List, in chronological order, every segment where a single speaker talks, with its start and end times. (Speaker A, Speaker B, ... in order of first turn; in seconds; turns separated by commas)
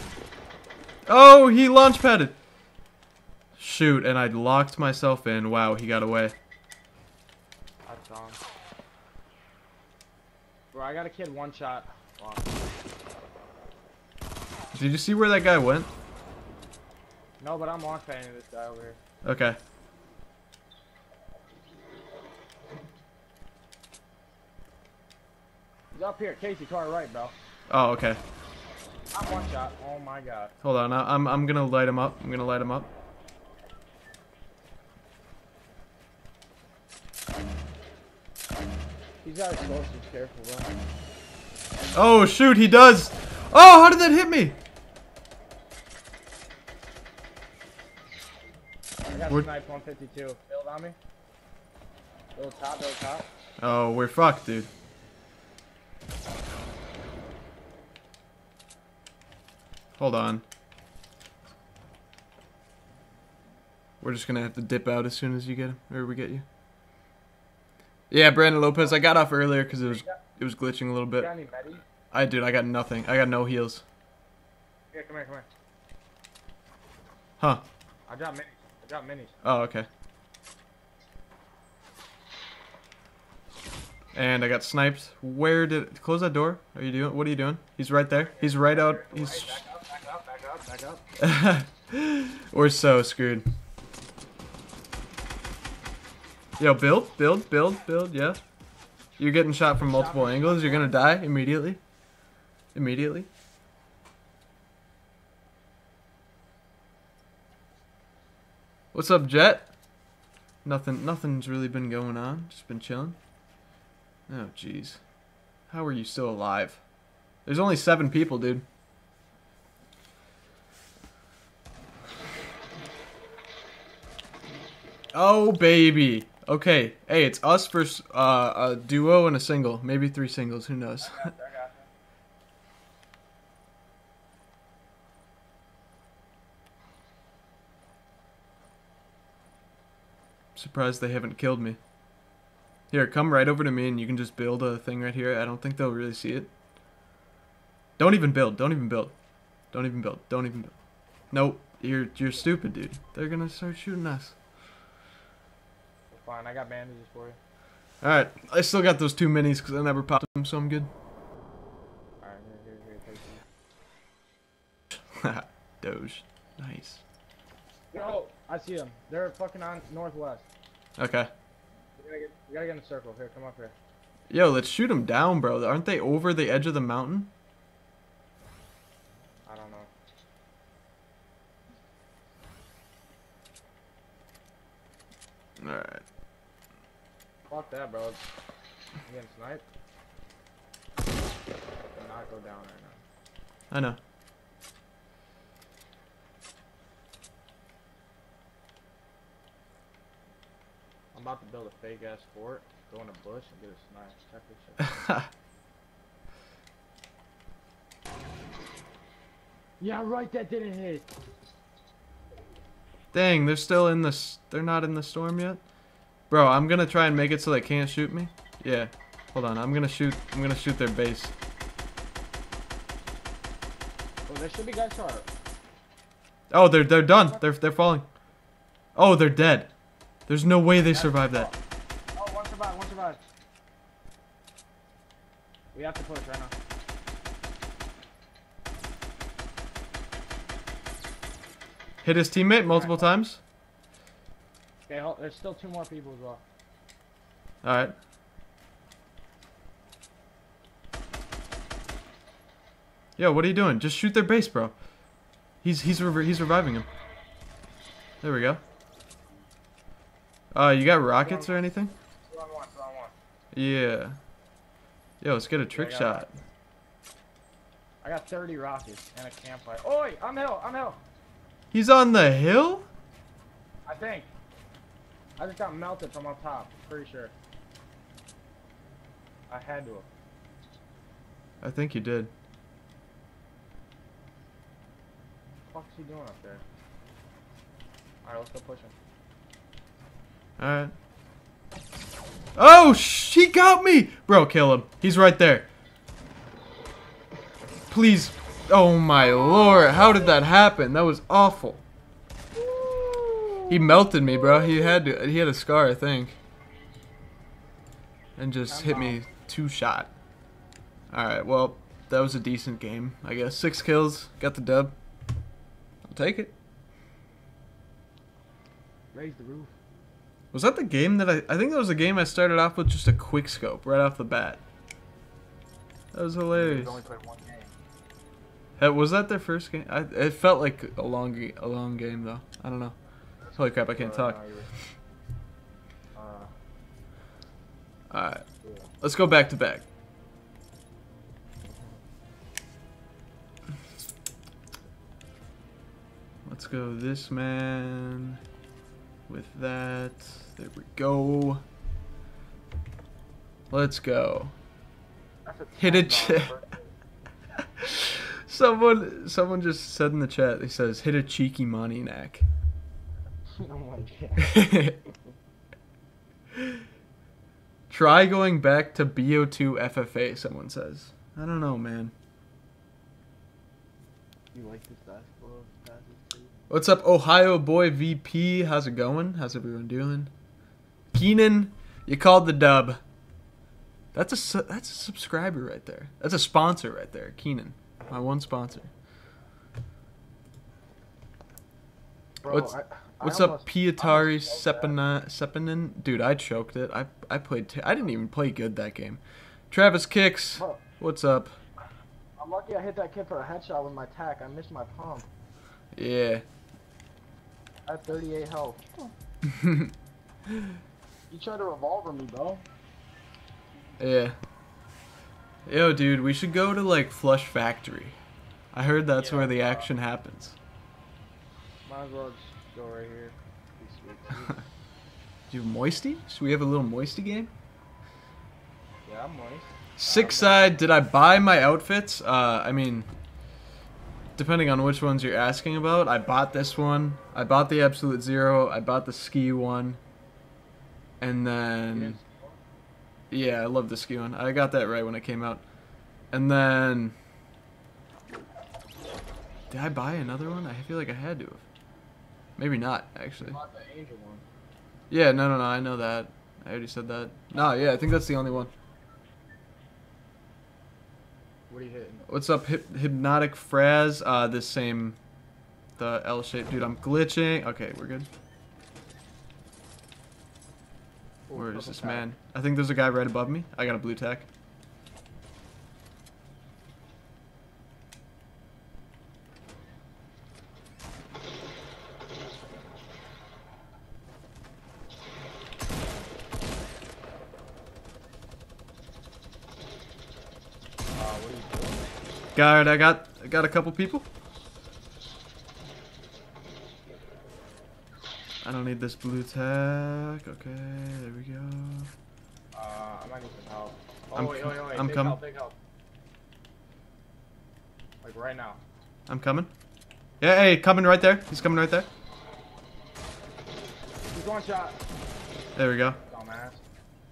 Speaker A: 1.1-2.4, Speaker A: 3.6-6.3, Speaker B: 7.8-8.4, Speaker B: 10.7-12.7, Speaker A: 14.7-15.9, Speaker B: 17.4-19.0, Speaker A: 19.2-19.6, Speaker B: 25.9-27.3, Speaker A: 27.7-28.2, Speaker B: 29.1-30.5, Speaker A: 30.6-32.9, Speaker B: 39.2-40.8, Speaker A: 42.0-44.6, Speaker B: 49.1-51.0, Speaker B: 52.4-53.3, Speaker A: 53.6-54.7, Speaker A: 60.0-60.4, Speaker A: 64.0-66.5, Speaker A: 68.1-71.3, Speaker B: 68.8-69.0, Speaker B: 69.8-70.2, Speaker B: 71.2-71.8, Speaker A: 72.1-73.8, Speaker B: 74.9-75.5, Speaker B: 78.1-79.4, Speaker A: 79.4-79.9, Speaker A: 84.2-89.6, Speaker B: 88.1-91.0, Speaker A: 91.2-93.5, Speaker A: 96.6-98.4, Speaker A: 99.2-101.8, Speaker B: 99.8-101.0, Speaker A: 102.7-103.3, Speaker A: 108.9-109.7, Speaker A: 110.6-113.2, Speaker A: 114.3-115.0, Speaker A: 115.7-116.8, Speaker A: 117.5-118.7, Speaker A: 125.1-131.3, Speaker B: 131.0-131.9, Speaker A: 140.6-141.8, Speaker A: 142.9-146.5, Speaker A: 148.0-149.1, Speaker A: 149.7-150.7, Speaker A: 151.3-154.3, Speaker B: 156.1-157.4, Speaker A: 158.0-160.9, Speaker B: 162.2-163.4, Speaker A: 164.9-167.0, Speaker B: 167.9-170.5, Speaker A: 171.0-171.3, Speaker B: 172.0-173.8, Speaker A: 174.3-177.3, Speaker B: 179.5-179.9, Speaker A: 185.6-186.0, Speaker B: 187.5-188.2, Speaker B: 189.1-189.6, Speaker B: 191.9-193.0, Speaker A: 193.7-194.0, Speaker B: 201.1-204.9, Speaker A: 204.8-205.3, Speaker B: 209.8-211.1, Speaker A: 213.1-215.6, Speaker A: 216.3-221.3, Speaker B: 224.3-225.3, Speaker A: 226.5-228.1, Speaker B: 227.1-227.4, Speaker A: 228.9-229.7, Speaker A: 230.3-231.5, Speaker B: 230.8-231.6, Speaker B: 232.2-233.2, Speaker B: 235.7-236.5, Speaker A: 242.0-243.4, Speaker B: 242.6-243.1, Speaker B: 244.9-246.4, Speaker A: 247.6-247.9, Speaker A: 253.2-254.7, Speaker A: 255.6-256.9, Speaker A: 258.2-258.6, Speaker A: 260.5-261.9, Speaker B: 261.2-261.6, Speaker B: 262.3-263.1, Speaker A: 263.5-264.2, Speaker A: 265.2-266.4, Speaker B: 265.7-266.3, Speaker B: 268.0-271.0, Speaker A: 271.7-272.9, Speaker B: 273.9-274.3, Speaker B: 275.4-277.3, Speaker B: 279.5-280.1, Speaker A: 281.6-282.3, Speaker B: 285.7-286.6, Speaker B: 288.2-288.9, Speaker A: 290.6-290.9, Speaker A: 292.6-295.7, Speaker A: 297.9-301.8, Speaker B: 299.2-300.4, Speaker B: 302.6-305.0, Speaker A: 303.7-306.4, Speaker A: 308.4-310.1, Speaker B: 308.7-309.2, Speaker A: 311.1-314.9, Speaker A: 316.1-316.5, Speaker B: 319.1-319.8, Speaker A: 320.5-324.6, Speaker A: 326.1-327.0, Speaker B: 326.5-327.7, Speaker A: 328.8-333.0, Speaker B: 333.5-334.7, Speaker A: 333.6-334.4, Speaker B: 336.1-336.5, Speaker A: 338.1-338.4, Speaker B: 338.6-338.9, Speaker A: 339.0-339.8, Speaker A: 346.5-348.4, Speaker A: 349.3-351.6, Speaker A: 353.7-354.5, Speaker B: 355.5-356.9, Speaker A: 355.8-356.5, Speaker A: 357.6-362.5, Speaker B: 363.5-364.7, Speaker A: 364.4-365.0, Speaker A: 367.9-372.1, Speaker B: 374.5-376.5, Speaker A: 376.7-380.3, Speaker A: 381.1-383.0, Speaker A: 384.1-388.9, Speaker B: 392.4-395.0, Speaker A: 392.5-401.6, Speaker B: 400.6-400.8, Speaker B: 402.4-405.3, Speaker A: 405.9-406.4, Speaker B: 407.9-409.1, Speaker A: 409.4-409.9, Speaker B: 411.3-412.6, Speaker A: 414.0-414.4, Speaker A: 415.7-418.2, Speaker A: 418.7-420.6, Speaker B: 419.1-419.9, Speaker B: 421.9-424.6, Speaker A: 425.5-427.5, Speaker B: 429.1-430.9, Speaker A: 430.0-433.1, Speaker A: 434.4-440.0, Speaker A: 441.2-442.2, Speaker B: 441.9-442.6, Speaker A: 443.3-445.6, Speaker A: 446.3-447.1, Speaker A: 449.7-451.6, Speaker A: 452.6-453.6, Speaker B: 453.4-454.4, Speaker A: 455.1-458.7, Speaker B: 461.7-462.2, Speaker A: 462.3-465.2, Speaker A: 466.0-468.3, Speaker B: 471.5-472.2, Speaker A: 471.5-474.5, Speaker B: 491.1-492.1, Speaker A: 492.6-494.3, Speaker A: 498.6-502.1, Speaker B: 502.7-505.8, Speaker A: 504.4-505.4, Speaker B: 508.2-508.8, Speaker A: 509.3-509.7, Speaker A: 510.4-512.1, Speaker B: 514.3-515.0, Speaker A: 515.8-516.2, Speaker B: 516.2-516.8